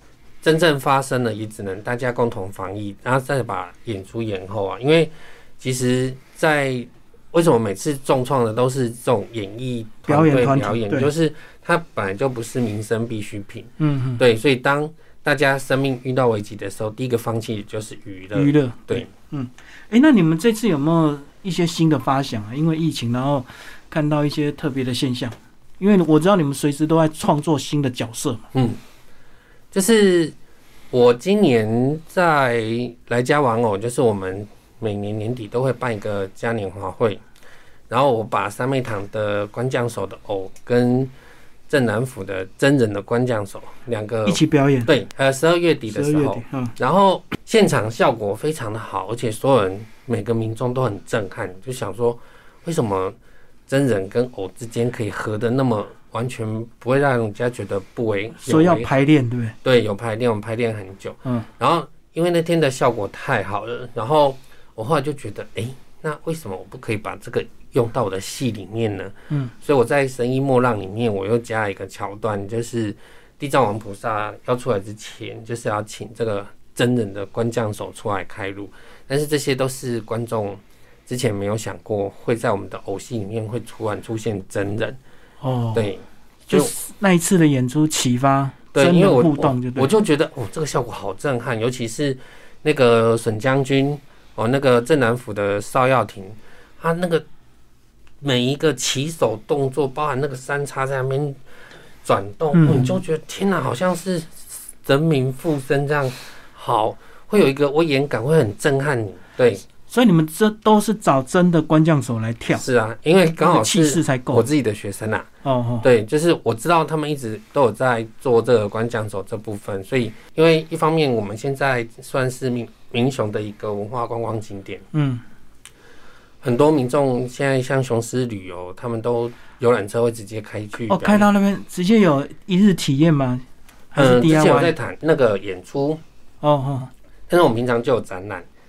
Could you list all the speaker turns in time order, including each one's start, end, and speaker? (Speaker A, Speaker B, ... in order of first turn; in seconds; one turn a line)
Speaker A: 0.4-19.1
Speaker B: 10.1-11.1
Speaker B: 13.8-14.2
Speaker B: 18.4-28.4
Speaker A: 28.5-28.8
Speaker A: 29.7-30.4
Speaker A: 30.9-37.2
Speaker A: 37.9-41.1
Speaker A: 41.7-53.2
Speaker B: 44.3-44.9
Speaker B: 45.9-46.8
Speaker A: 53.7-58.9
Speaker B: 58.4-59.6
Speaker A: 59.6-85.0
Speaker B: 85.4-85.9
Speaker A: 85.7-86.7
Speaker B: 86.5-89.9
Speaker A: 88.7-97.2
Speaker A: 98.2-101.4
Speaker A: 102.0-109.6
Speaker B: 102.5-103.0
Speaker B: 109.9-112.6
Speaker A: 112.5-115.3
Speaker B: 113.4-114.5
Speaker B: 115.4-115.9
Speaker A: 115.8-124.8
Speaker B: 124.9-125.2
Speaker A: 126.4-131.3
Speaker B: 130.9-134.7
Speaker A: 134.0-136.0
Speaker B: 136.4-136.9
Speaker A: 137.3-138.5